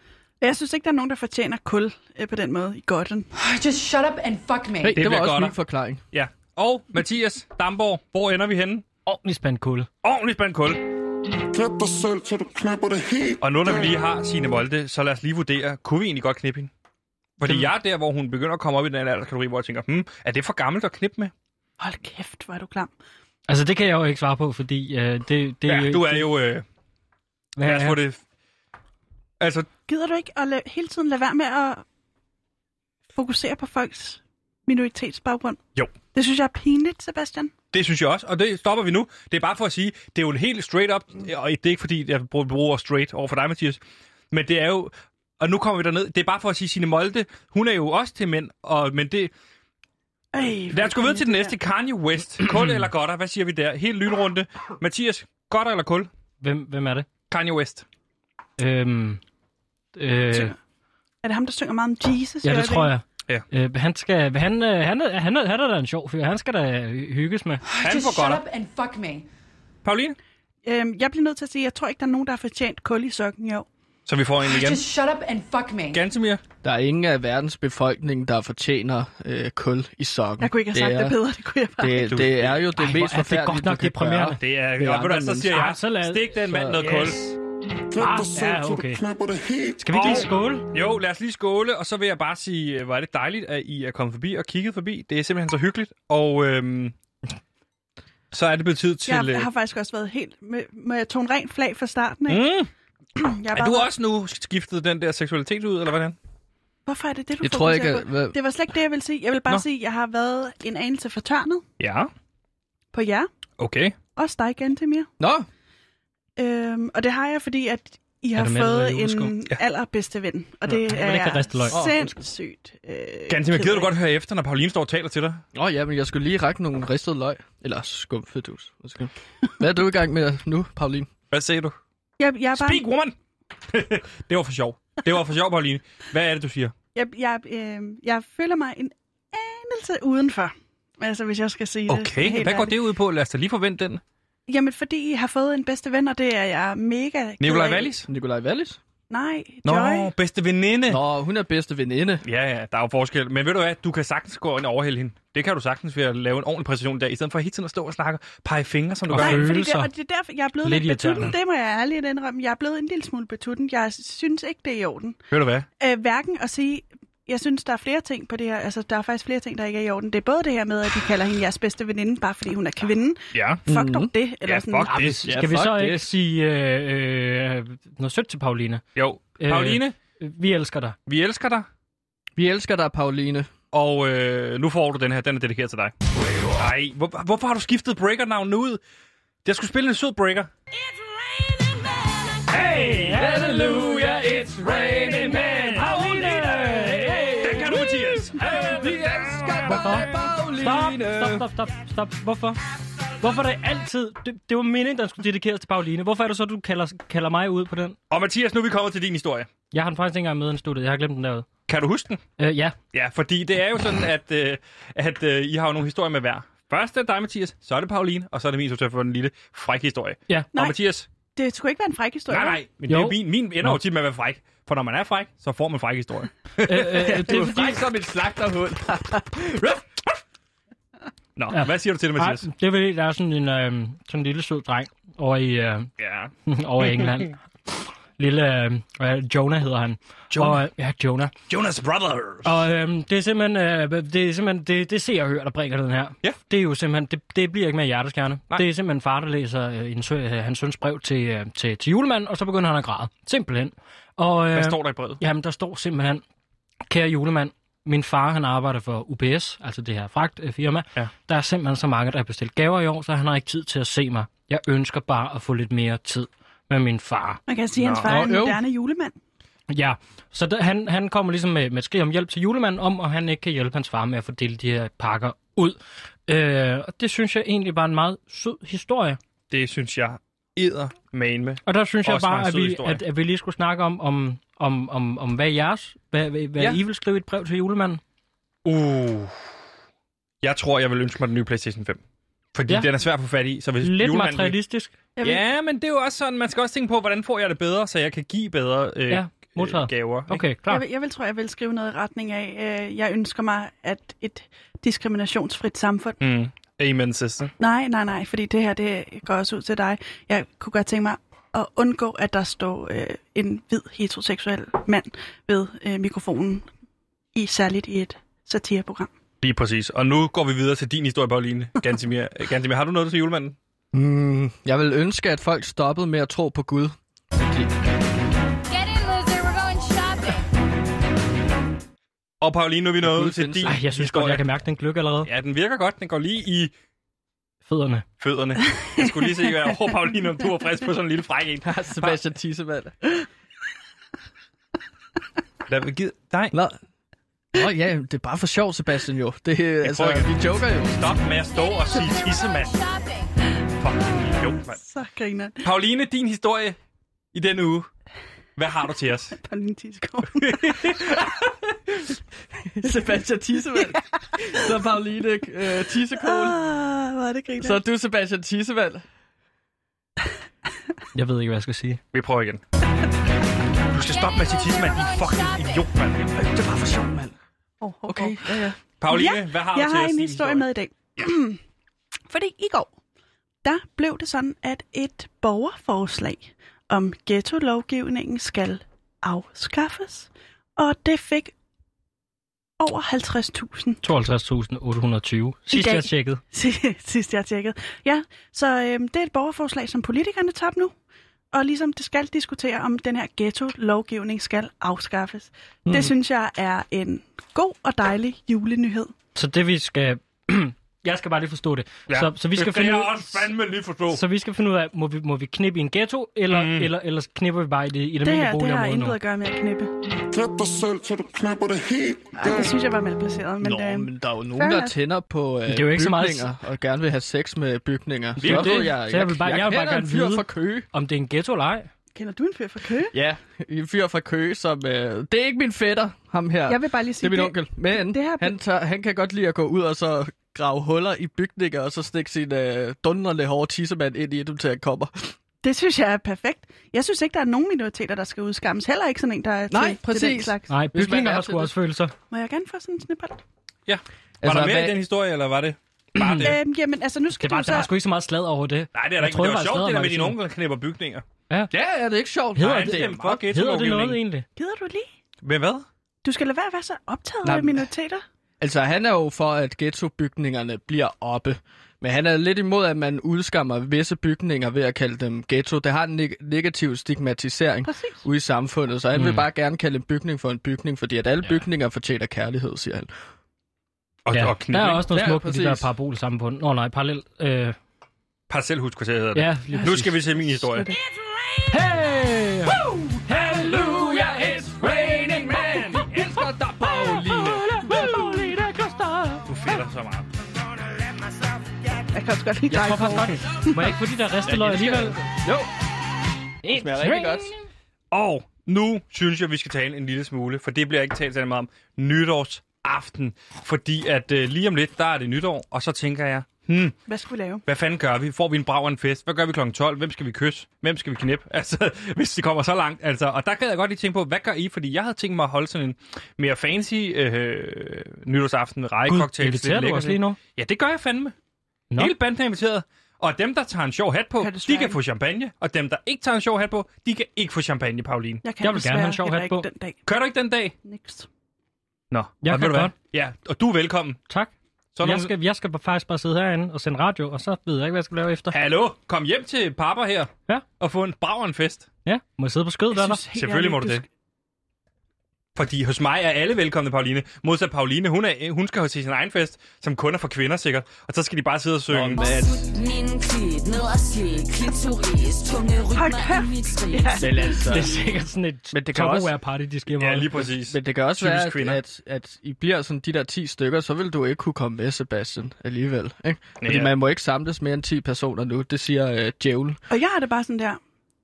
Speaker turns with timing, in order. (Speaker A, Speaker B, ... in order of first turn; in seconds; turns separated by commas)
Speaker A: 0.4-3.3, Speaker B: 3.3-5.0, Speaker C: 4.8-6.0, Speaker D: 4.9-5.5, Speaker D: 6.1-8.8, Speaker E: 9.1-9.9, Speaker D: 10.0-10.8, Speaker F: 11.5-13.3, Speaker D: 13.4-16.7, Speaker D: 17.4-21.3, Speaker E: 17.4-17.7, Speaker A: 21.8-22.9, Speaker E: 23.5-26.3, Speaker D: 25.6-26.6, Speaker E: 27.6-28.0, Speaker D: 27.6-28.2, Speaker D: 29.4-29.7, Speaker A: 29.9-31.8, Speaker A: 33.1-35.6, Speaker A: 36.1-37.5, Speaker D: 37.7-43.8, Speaker D: 44.3-49.3, Speaker A: 50.3-51.5, Speaker D: 50.7-56.1, Speaker E: 56.4-57.1, Speaker D: 57.3-57.8, Speaker E: 58.6-59.2, Speaker E: 59.9-60.5, Speaker A: 61.2-62.9, Speaker E: 62.4-67.6, Speaker B: 67.6-69.2, Speaker D: 67.8-68.4, Speaker D: 69.8-70.2, Speaker A: 70.6-73.7, Speaker D: 74.0-74.8, Speaker B: 74.4-76.0, Speaker D: 75.9-76.4, Speaker C: 76.6-81.2, Speaker A: 80.4-82.1, Speaker C: 81.8-85.6, Speaker D: 82.0-82.6, Speaker E: 82.7-84.4, Speaker D: 84.4-87.3, Speaker E: 85.4-87.3, Speaker C: 86.5-86.8, Speaker E: 87.9-89.2, Speaker F: 89.1-89.7, Speaker E: 89.8-90.7, Speaker D: 89.9-96.9, Speaker D: 98.3-99.5, Speaker A: 99.0-102.5, Speaker D: 102.3-102.7, Speaker A: 103.2-103.9, Speaker D: 103.5-106.2, Speaker A: 106.8-111.6, Speaker C: 107.4-108.4, Speaker D: 111.8-112.1, Speaker A: 112.9-113.3, Speaker D: 113.6-114.0, Speaker A: 114.2-115.1, Speaker C: 115.2-115.5, Speaker A: 116.4-123.9, Speaker E: 118.3-119.3, Speaker E: 120.8-121.8, Speaker C: 121.7-122.2, Speaker D: 123.3-125.4, Speaker C: 125.5-131.1, Speaker D: 131.3-131.7, Speaker A: 132.2-132.8, Speaker D: 132.5-133.1, Speaker D: 133.7-136.7, Speaker A: 136.9-142.8, Speaker D: 141.9-144.0, Speaker A: 144.5-148.0, Speaker D: 147.4-148.1, Speaker C: 148.1-148.8, Speaker A: 149.1-150.1, Speaker D: 149.6-151.0, Speaker C: 150.9-152.2, Speaker D: 152.2-159.5, Speaker E: 159.1-159.9, Speaker A: 159.2-165.2, Speaker E: 160.6-161.3, Speaker D: 165.3-165.7, Speaker A: 165.8-175.0, Speaker D: 173.3-173.6, Speaker C: 173.7-174.1, Speaker D: 174.4-175.4, Speaker E: 174.8-178.8, Speaker C: 175.2-176.1, Speaker D: 178.9-179.9, Speaker E: 179.4-180.9, Speaker D: 181.1-181.7, Speaker C: 182.3-183.5, Speaker D: 183.7-185.9, Speaker D: 186.6-188.8, Speaker D: 189.4-190.5, Speaker C: 192.5-201.4, Speaker E: 192.7-193.9, Speaker E: 195.2-197.3, Speaker D: 197.4-198.9, Speaker E: 199.6-202.6, Speaker E: 203.2-208.0, Speaker D: 208.1-209.5, Speaker E: 209.7-211.5, Speaker D: 211.7-212.2, Speaker E: 212.4-212.8, Speaker D: 212.9-221.1, Speaker A: 221.3-222.6, Speaker D: 222.3-227.1, Speaker E: 222.8-223.8, Speaker E: 226.6-227.8, Speaker C: 226.8-229.8, Speaker D: 231.3-232.5, Speaker E: 231.5-235.9, Speaker D: 236.0-237.2, Speaker E: 236.5-241.3, Speaker D: 240.3-240.6, Speaker D: 241.5-242.6, Speaker E: 242.4-256.2, Speaker D: 254.5-255.2, Speaker E: 256.9-267.4, Speaker A: 267.5-269.1, Speaker D: 267.8-268.1, Speaker C: 268.0-268.6, Speaker E: 269.7-279.2, Speaker D: 279.5-283.0, Speaker E: 281.6-288.0, Speaker D: 288.6-289.4, Speaker D: 290.4-292.0, Speaker D: 292.5-294.6, Speaker E: 293.8-294.9, Speaker A: 295.1-295.4, Speaker D: 295.2-300.4, Speaker E: 299.1-300.8, Speaker A: 300.7-306.2, Speaker D: 306.2-307.5, Speaker A: 307.6-316.7, Speaker A: 317.3-319.1, Speaker D: 319.4-323.6, Speaker C: 323.9-327.7, Speaker G: 328.7-330.4, Speaker D: 332.4-334.4, Speaker C: 333.0-333.8, Speaker E: 333.6-335.3, Speaker D: 335.2-336.7, Speaker E: 337.6-338.1, Speaker D: 338.2-342.2, Speaker A: 338.8-339.7, Speaker C: 341.6-343.0, Speaker D: 345.7-346.5, Speaker C: 346.5-346.8, Speaker C: 347.5-351.1, Speaker D: 349.8-352.8, Speaker G: 351.5-353.3, Speaker D: 353.8-354.8, Speaker A: 354.1-355.6, Speaker D: 355.6-356.8, Speaker D: 357.3-357.9, Speaker D: 358.6-359.4, Speaker A: 359.4-361.1, Speaker D: 360.3-361.5, Speaker C: 362.7-366.6, Speaker A: 366.2-367.8, Speaker C: 367.6-369.0, Speaker E: 371.1-372.0, Speaker D: 372.1-372.6, Speaker D: 373.9-376.4, Speaker G: 374.3-375.8, Speaker C: 376.3-377.3, Speaker A: 377.8-381.6, Speaker C: 378.1-378.7, Speaker D: 379.0-380.7, Speaker A: 382.3-382.9, Speaker A: 383.6-391.5, Speaker A: 392.8-394.0, Speaker E: 394.0-396.4, Speaker A: 395.7-400.9, Speaker A: 401.5-409.1, Speaker C: 405.9-406.1, Speaker E: 409.3-413.5, Speaker D: 412.1-414.2, Speaker E: 414.1-419.2, Speaker D: 416.5-416.9, Speaker A: 418.2-419.9, Speaker F: 420.3-422.2, Speaker A: 422.3-424.9, Speaker C: 423.6-430.9, Speaker E: 425.6-426.5, Speaker E: 428.4-431.9, Speaker D: 428.4-428.9, Speaker A: 432.1-433.1, Speaker C: 433.1-445.3, Speaker A: 436.6-438.6, Speaker A: 445.6-450.7, Speaker C: 449.7-451.7, Speaker E: 450.7-452.1, Speaker A: 452.3-453.4, Speaker D: 453.9-456.6, Speaker C: 454.4-455.0, Speaker E: 456.2-456.6, Speaker A: 456.4-457.9, Speaker E: 457.3-460.4, Speaker D: 458.9-461.2, Speaker C: 461.7-463.4, Speaker E: 462.6-464.4, Speaker D: 462.6-464.2, Speaker A: 464.6-465.1, Speaker D: 465.4-465.9, Speaker A: 466.2-468.2, Speaker C: 467.4-467.9, Speaker C: 468.6-483.1, Speaker A: 477.9-478.2, Speaker E: 479.1-479.4, Speaker D: 484.2-485.1, Speaker E: 484.3-487.8, Speaker C: 485.1-485.9, Speaker D: 488.5-490.9, Speaker E: 489.3-490.5, Speaker A: 490.7-491.0, Speaker E: 491.7-499.4, Speaker C: 492.7-497.9, Speaker D: 499.4-500.3, Speaker A: 502.1-503.9, Speaker E: 502.7-505.2, Speaker C: 502.7-503.2, Speaker C: 504.4-505.7, Speaker C: 506.6-507.5, Speaker E: 506.6-507.6, Speaker D: 508.1-516.9, Speaker A: 517.0-517.6, Speaker D: 517.6-531.3, Speaker E: 529.0-530.4, Speaker D: 532.0-538.4, Speaker A: 534.4-535.0, Speaker A: 538.4-540.0, Speaker E: 538.6-539.7, Speaker D: 540.0-540.7, Speaker A: 540.8-541.3, Speaker D: 542.1-544.2, Speaker E: 542.4-542.9, Speaker E: 544.3-548.5, Speaker D: 545.0-545.3, Speaker D: 548.5-551.9, Speaker E: 552.0-553.2, Speaker A: 552.9-554.0, Speaker D: 553.3-554.0, Speaker D: 555.5-562.3, Speaker C: 561.9-562.7, Speaker H: 562.2-567.5, Speaker A: 565.9-567.6, Speaker C: 567.2-568.1, Speaker E: 567.7-570.5, Speaker C: 568.7-569.3, Speaker D: 570.0-571.8, Speaker C: 570.5-579.8, Speaker D: 576.6-576.9, Speaker A: 579.9-580.8